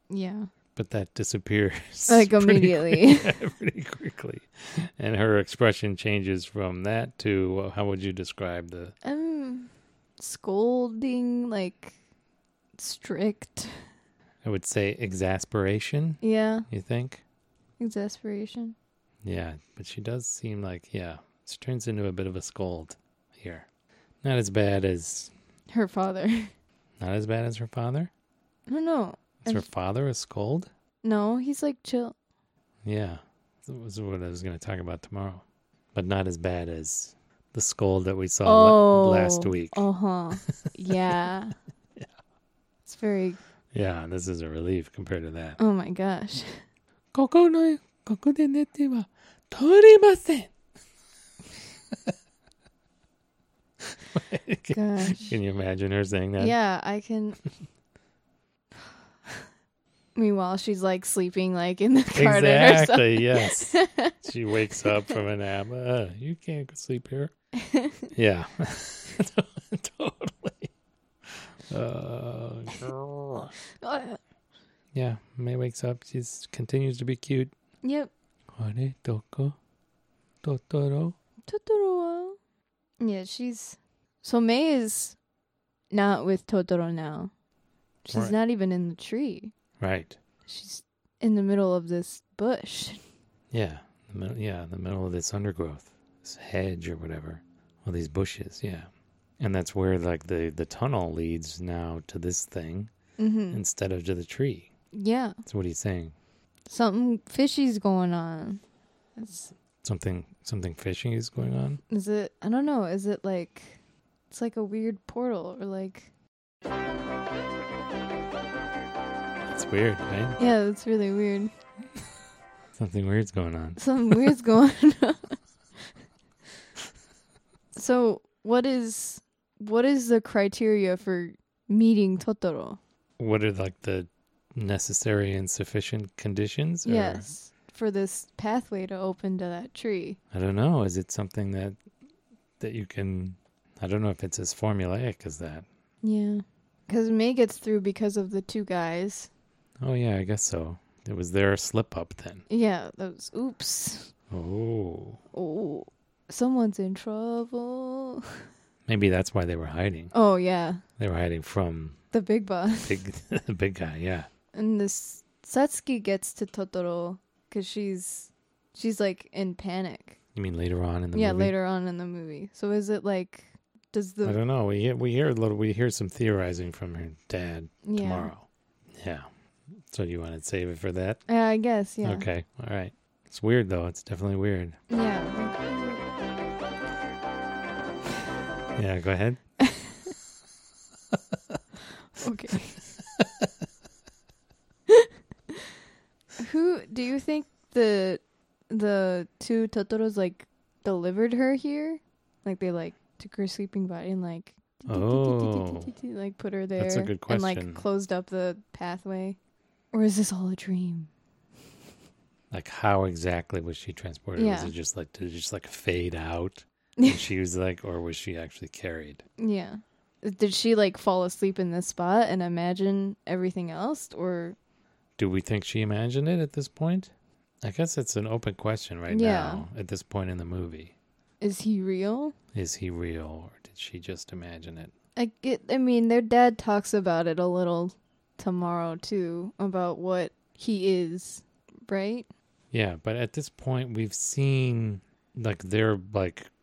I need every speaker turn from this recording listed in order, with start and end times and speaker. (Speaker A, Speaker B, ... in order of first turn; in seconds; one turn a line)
Speaker A: 0.1-0.5
Speaker B: 0.8-8.9
Speaker A: 2.1-3.3
Speaker A: 9.0-12.0
Speaker A: 12.8-13.9
Speaker B: 14.4-17.2
Speaker A: 16.2-16.7
Speaker A: 17.8-18.8
Speaker B: 19.2-23.7
Speaker B: 24.2-25.3
Speaker A: 25.7-26.5
Speaker B: 27.0-28.1
Speaker A: 28.7-29.7
Speaker B: 29.4-30.7
Speaker A: 31.0-32.1
Speaker B: 32.9-35.4
Speaker B: 35.9-39.9
Speaker A: 38.5-41.5
Speaker A: 42.9-43.4
Speaker B: 43.7-45.6
Speaker A: 45.6-46.6
Speaker B: 47.1-50.5
Speaker B: 53.9-56.6
Speaker A: 54.7-55.4
Speaker A: 56.4-57.4
Speaker A: 60.1-64.2
Speaker B: 62.1-67.3
Speaker A: 67.7-68.0
Speaker B: 68.1-70.7
Speaker B: 71.7-73.5
Speaker A: 73.8-74.2
Speaker B: 75.0-77.5
Speaker A: 77.8-78.1
Speaker B: 78.6-79.6
Speaker B: 80.4-81.2
Speaker A: 81.5-82.4
Speaker A: 83.0-85.2
Speaker A: 85.9-87.3
Speaker A: 88.0-89.5
Speaker B: 89.8-90.2
Speaker A: 90.5-93.0
Speaker B: 93.5-98.9
Speaker B: 99.4-102.9
Speaker A: 103.2-103.6
Speaker B: 103.5-104.7
Speaker A: 104.9-105.4
Speaker B: 105.5-106.2
Speaker A: 106.7-108.6
Speaker A: 109.2-109.5
Speaker B: 109.8-111.8
Speaker A: 111.9-113.8
Speaker A: 114.3-116.1
Speaker B: 119.5-120.4
Speaker A: 120.4-121.5
Speaker B: 122.8-124.3
Speaker A: 123.8-125.4
Speaker A: 127.8-132.8
Speaker B: 133.2-137.3
Speaker A: 136.8-140.2
Speaker B: 140.3-141.8
Speaker B: 142.6-145.7
Speaker A: 146.0-149.3
Speaker B: 149.8-152.4
Speaker A: 152.5-154.1
Speaker B: 154.3-155.2
Speaker A: 155.3-158.2
Speaker B: 158.9-160.1
Speaker A: 160.1-160.8
Speaker B: 161.0-162.0
Speaker A: 162.1-163.0
Speaker B: 162.8-164.3
Speaker A: 164.5-170.2
Speaker B: 170.3-171.5
Speaker A: 171.1-174.4
Speaker B: 174.2-179.3
Speaker A: 177.8-178.3
Speaker B: 179.9-181.2
Speaker A: 181.3-182.3
Speaker B: 182.0-184.8
Speaker A: 184.9-186.0
Speaker B: 188.8-189.4
Speaker A: 189.6-190.1
Speaker A: 192.1-192.8
Speaker A: 196.4-209.4
Speaker B: 204.9-205.9
Speaker B: 206.8-207.8
Speaker A: 209.9-211.1
Speaker B: 212.5-219.2
Speaker A: 214.4-214.7
Speaker A: 219.4-224.6
Speaker B: 225.2-231.0
Speaker A: 229.1-229.7
Speaker A: 231.4-232.3
Speaker B: 232.5-234.9
Speaker A: 235.2-242.3
Speaker B: 242.7-246.5